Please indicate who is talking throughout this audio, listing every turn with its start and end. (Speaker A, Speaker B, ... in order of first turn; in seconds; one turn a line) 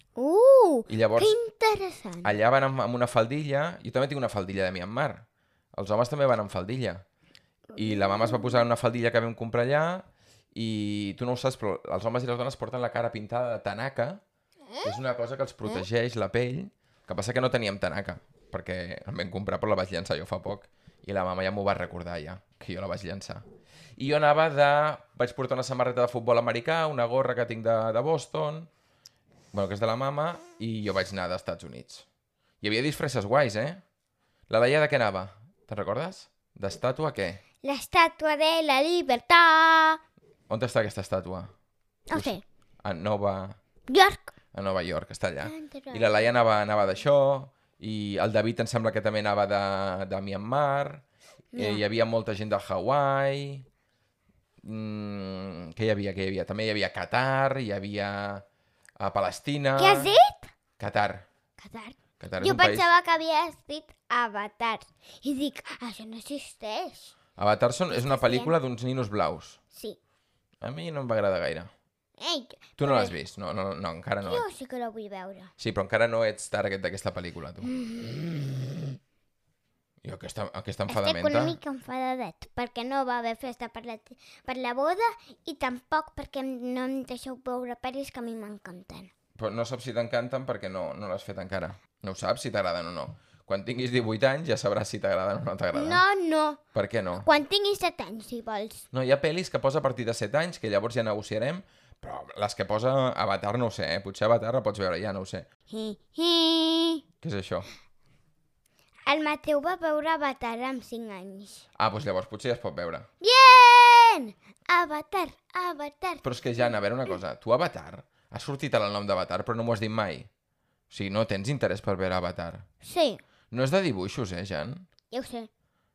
Speaker A: 0.2-2.4
Speaker B: 0.9-1.4
Speaker B: 2.2-7.0
Speaker A: 7.8-8.6
Speaker B: 7.8-14.2
Speaker B: 14.8-23.4
Speaker B: 24.0-28.7
Speaker B: 29.5-32.1
Speaker B: 32.6-33.8
Speaker B: 34.5-37.4
Speaker A: 37.6-40.0
Speaker B: 40.5-41.5
Speaker A: 42.1-42.4
Speaker B: 42.1-43.6
Speaker A: 43.9-44.3
Speaker B: 44.5-51.0
Speaker A: 45.4-46.3
Speaker A: 51.5-51.8
Speaker B: 51.6-53.6
Speaker B: 54.6-58.5
Speaker B: 59.0-60.1
Speaker A: 59.8-60.5
Speaker B: 60.8-61.3
Speaker A: 61.6-67.1
Speaker B: 62.2-62.9
Speaker B: 67.4-69.6
Speaker A: 67.9-68.5
Speaker A: 69.7-70.0
Speaker B: 70.6-71.7
Speaker A: 72.2-73.2
Speaker B: 72.8-74.4
Speaker A: 74.2-75.5
Speaker B: 75.6-77.7
Speaker A: 77.6-79.0
Speaker B: 80.0-81.6
Speaker A: 80.9-89.1
Speaker B: 89.4-96.0
Speaker A: 95.7-96.6
Speaker B: 96.8-97.3
Speaker A: 97.2-98.8
Speaker B: 98.9-105.5
Speaker A: 105.7-107.0
Speaker B: 107.2-107.7
Speaker A: 109.1-111.7
Speaker B: 111.8-113.1
Speaker A: 113.2-116.7
Speaker B: 116.2-120.3
Speaker B: 120.9-122.7
Speaker A: 122.8-123.2
Speaker B: 123.5-124.9
Speaker A: 125.1-125.5